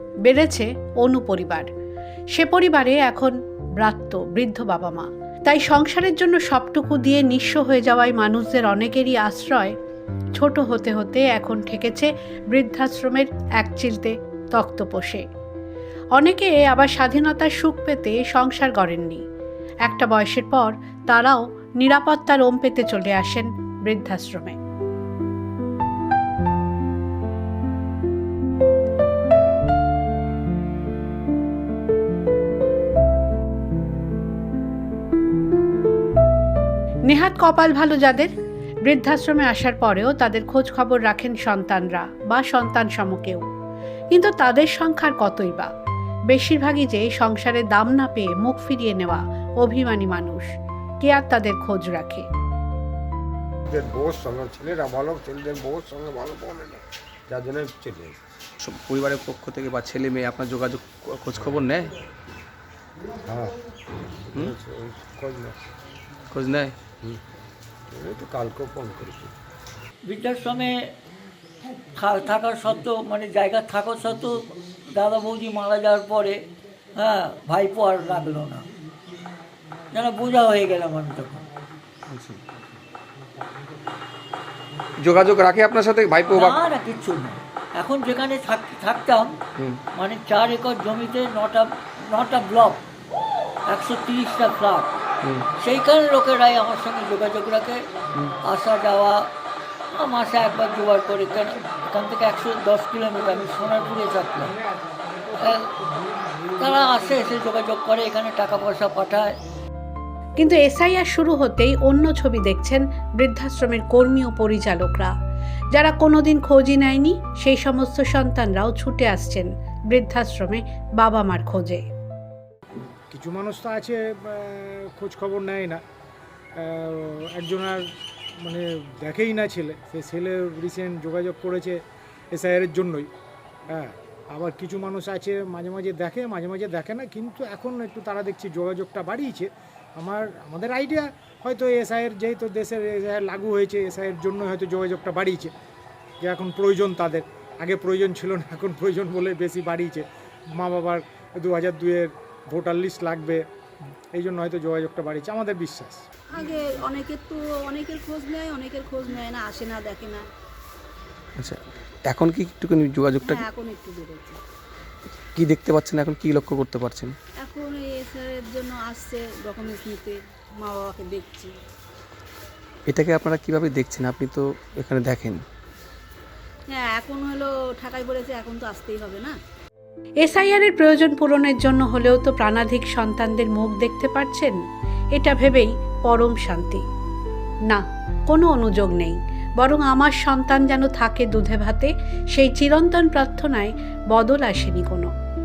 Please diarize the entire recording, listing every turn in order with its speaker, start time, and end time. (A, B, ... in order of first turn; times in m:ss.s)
0:00.3-0:01.7 A
0:02.3-0:09.7 A
0:10.4-0:15.2 A
0:16.2-0:19.2 A
0:19.9-0:24.6 A
0:37.1-0:38.3 A
0:38.9-0:43.4 A
0:44.1-0:45.7 A
0:46.3-0:50.5 A
0:51.0-0:52.3 A
0:53.7-0:58.2 B
0:58.6-1:01.9 C
1:03.3-1:03.5 B
1:04.3-1:05.6 B
1:06.3-1:06.8 C
1:07.9-1:09.3 B
1:10.1-1:10.8 D
1:12.0-1:16.4 D
1:17.0-1:18.7 D
1:19.9-1:21.5 D
1:22.1-1:22.4 C
1:25.0-1:26.6 C
1:26.3-1:29.4 D
1:30.0-1:32.8 D
1:33.7-1:34.9 D
1:35.6-1:37.8 D
1:38.4-1:39.3 D
1:39.9-1:44.6 D
1:45.4-1:45.8 D
1:46.6-1:49.3 D
1:50.4-1:55.1 A
1:55.7-2:01.8 A
2:03.1-2:05.8 E
2:06.6-2:07.9 E
2:08.4-2:11.8 E
2:12.3-2:13.1 E
2:13.7-2:25.5 E
2:26.2-2:33.4 E
2:34.1-2:36.1 E
2:36.3-2:40.2 F
2:41.4-2:43.5 C
2:43.2-2:44.4 F
2:45.4-2:47.2 C
2:47.4-2:51.5 F
2:52.9-2:55.4 C
2:56.7-2:59.4 F
3:00.2-3:04.6 A
3:05.2-3:06.8 A
3:07.7-3:15.1 A